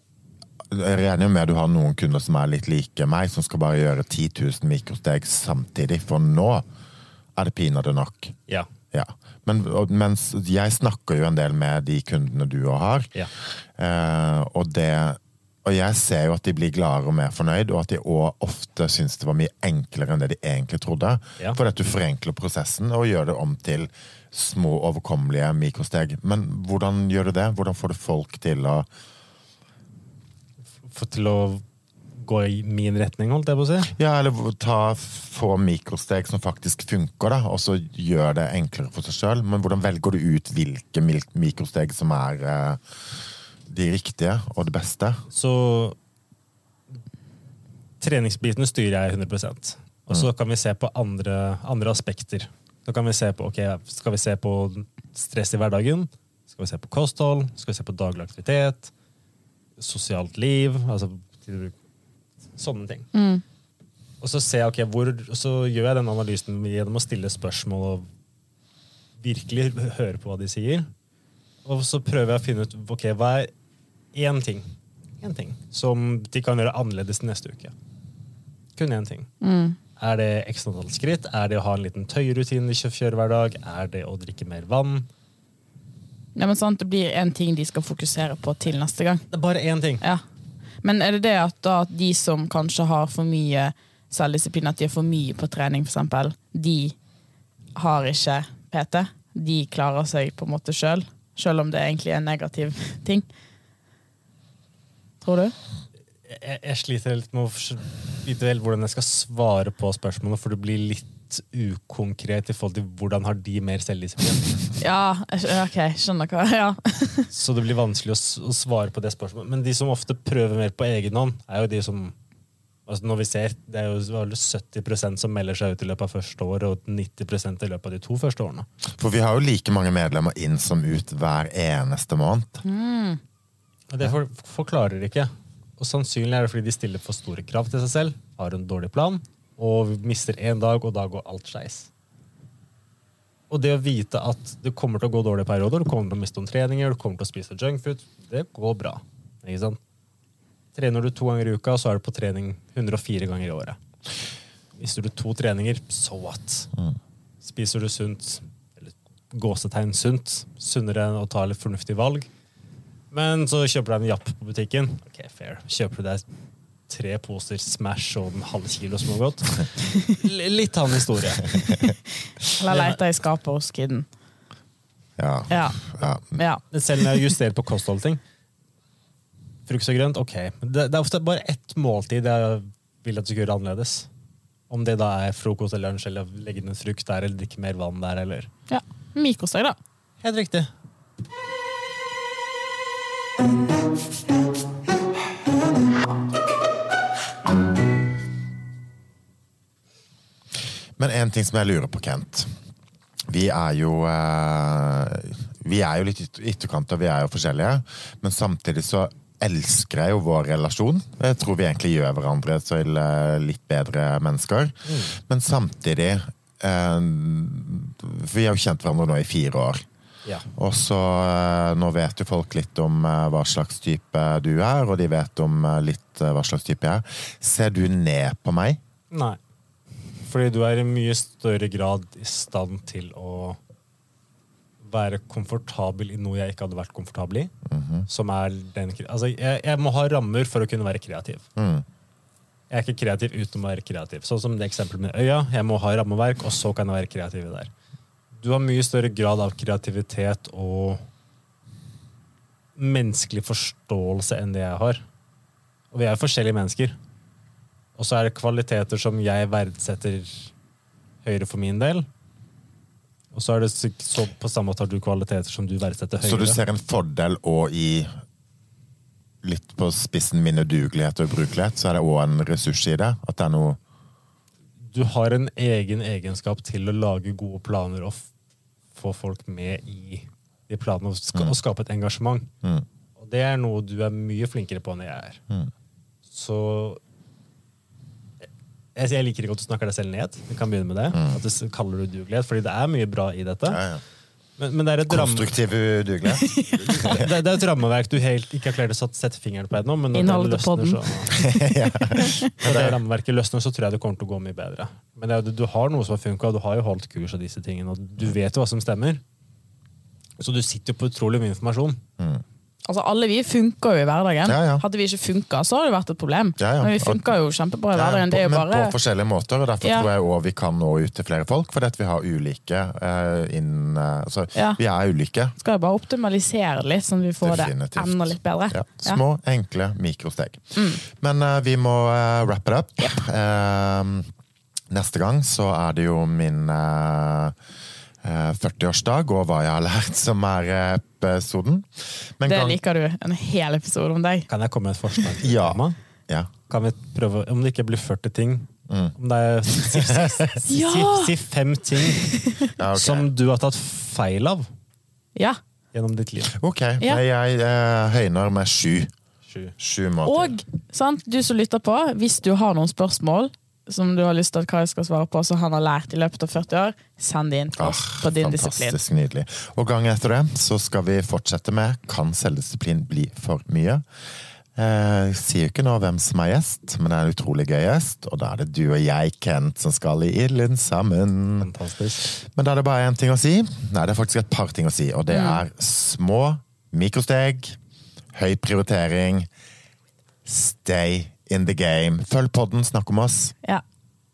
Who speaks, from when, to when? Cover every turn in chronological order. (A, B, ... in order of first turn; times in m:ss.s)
0:00.7-0:06.6 A
0:07.4-0:08.3 A
0:08.9-0:13.1 A
0:13.8-0:28.9 A
0:30.8-0:31.6 B
0:32.2-0:33.9 B
0:34.0-0:42.8 A
0:43.7-0:45.2 A
0:45.3-0:46.0 B
0:48.0-0:58.9 B
0:59.8-1:01.7 B
1:02.6-1:03.1 B
1:03.1-1:03.4 C
1:04.2-1:08.1 B
1:09.2-1:10.9 B
1:11.6-1:13.5 B
1:14.1-1:14.6 B
1:15.2-1:17.7 B
1:18.8-1:19.3 B
1:19.4-1:19.8 C
1:20.0-1:25.1 B
1:26.4-1:29.2 C
1:29.3-1:30.0 B
1:30.8-1:37.0 C
1:37.8-1:43.2 C
1:45.2-1:45.5 C
1:46.3-1:54.6 B
1:54.8-1:57.3 C
1:57.3-2:02.1 B
2:02.9-2:08.6 B
2:09.0-2:12.6 A
2:12.6-2:13.2 C
2:13.9-2:21.9 B
2:23.5-2:29.8 B
2:30.7-2:33.8 B
2:34.8-2:36.7 B
2:37.4-2:42.3 B
2:43.1-2:46.2 B
2:46.9-2:51.6 B
2:51.6-2:51.9 A
2:52.5-2:54.1 C
2:52.7-2:53.0 B
2:55.2-2:56.4 A
2:55.5-2:55.8 C
2:56.3-2:57.1 C
2:56.7-2:58.2 B
2:59.7-3:04.1 B
3:04.7-3:08.5 B
3:08.7-3:09.8 C
3:10.2-3:10.7 B
3:21.0-3:22.5 A
3:23.3-3:39.8 A
3:34.8-3:35.2 B
3:40.5-3:48.8 A
3:49.1-3:49.4 B
3:50.2-3:53.6 B
3:54.8-3:57.5 B
3:57.7-3:58.0 A
3:58.1-4:01.4 B
4:01.6-4:01.8 A
4:02.7-4:07.7 B
4:08.4-4:11.0 B
4:12.8-4:15.0 B
4:15.9-4:17.0 B
4:18.0-4:20.5 B
4:21.2-4:22.1 B
4:23.3-4:26.6 B
4:26.2-4:28.1 A
4:29.4-4:33.8 A
4:34.9-4:38.3 B
4:38.9-4:42.5 B
4:43.2-4:45.4 B
4:46.3-4:47.0 B
4:48.9-4:53.8 B
4:51.1-4:51.4 A
4:53.7-4:54.0 A
4:54.6-4:55.6 B
4:55.1-4:57.3 A
4:56.2-4:57.1 C
4:56.9-5:01.3 B
5:00.1-5:02.5 C
5:01.3-5:03.0 A
5:02.6-5:09.2 B
5:10.4-5:12.0 B
5:12.8-5:19.0 C
5:14.4-5:14.8 A
5:16.6-5:17.2 A
5:17.9-5:25.6 A
5:19.8-5:20.1 C
5:25.6-5:29.2 C
5:27.4-5:34.3 A
5:30.8-5:31.0 C
5:34.9-5:37.6 A
5:38.2-5:42.8 A
5:42.4-5:44.5 C
5:44.5-5:46.0 B
5:45.4-5:46.5 A
5:46.7-5:54.7 B
5:48.9-5:49.1 A
5:49.8-5:50.4 A
5:50.6-5:51.3 C
5:52.1-5:52.7 C
5:52.8-5:53.3 A
5:55.9-5:56.5 B
5:56.5-5:59.1 A
5:59.4-5:59.7 B
5:59.8-6:00.6 A
6:00.2-6:09.0 C
6:07.8-6:14.0 A
6:14.8-6:27.8 A
6:21.6-6:22.2 B
6:25.3-6:25.6 C
6:28.3-6:29.5 A
6:30.4-6:33.5 A